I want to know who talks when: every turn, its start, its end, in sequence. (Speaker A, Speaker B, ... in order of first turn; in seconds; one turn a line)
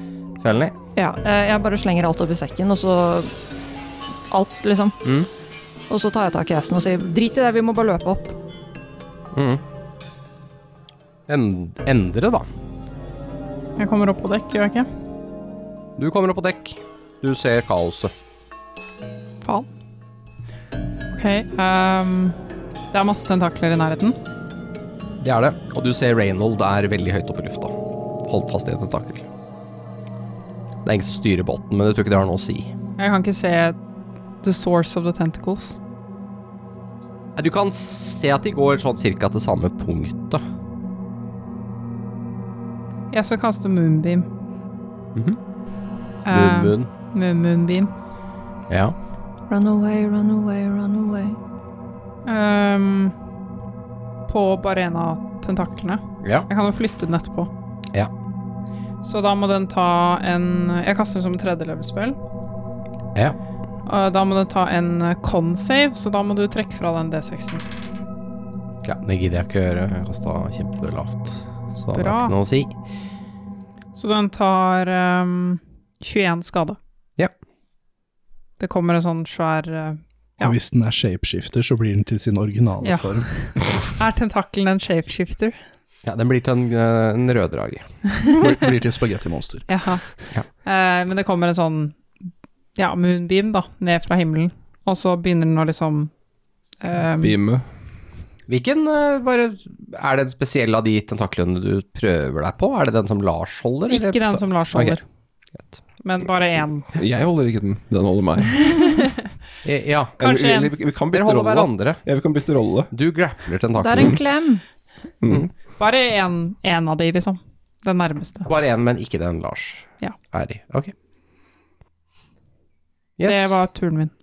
Speaker A: 0.4-0.8
Speaker B: 1.0-3.3
Speaker B: 4.3-5.0
Speaker A: 5.0-5.3
Speaker B: 5.9-8.4
Speaker A: 9.3-9.6
Speaker A: 11.3-12.5
Speaker C: 13.8-14.9
Speaker A: 16.0-18.1
Speaker C: 21.1-22.4
Speaker C: 22.9-24.2
Speaker A: 25.2-29.3
Speaker A: 30.8-32.7
Speaker C: 33.0-33.8
Speaker C: 34.4-35.8
Speaker A: 37.4-40.4
Speaker C: 43.1-44.3
Speaker C: 46.3-47.9
Speaker A: 46.3-46.9
Speaker A: 48.7-49.0
Speaker B: 49.5-51.4
Speaker C: 52.2-53.1
Speaker C: 54.3-57.5
Speaker A: 56.2-56.5
Speaker C: 59.0-62.2
Speaker C: 63.9-67.6
Speaker A: 68.8-72.7
Speaker C: 72.0-72.3
Speaker C: 74.0-76.8
Speaker C: 78.6-80.5
Speaker D: 80.4-83.9
Speaker C: 82.8-83.2
Speaker C: 84.0-85.6
Speaker A: 86.0-87.9
Speaker D: 88.4-89.7
Speaker C: 89.7-90.0
Speaker C: 90.6-92.0
Speaker C: 92.8-96.1
Speaker C: 96.8-97.3
Speaker E: 97.2-97.6
Speaker A: 98.5-105.0
Speaker C: 103.9-105.0
Speaker C: 106.0-106.9
Speaker E: 107.0-108.7
Speaker C: 108.5-109.1
Speaker A: 109.6-110.2
Speaker E: 110.2-112.9
Speaker C: 110.2-110.8
Speaker A: 111.1-112.0
Speaker A: 112.9-114.2
Speaker B: 113.8-114.6
Speaker E: 115.2-115.5
Speaker C: 115.8-118.5
Speaker A: 118.5-120.9
Speaker A: 123.2-123.7
Speaker C: 123.2-124.1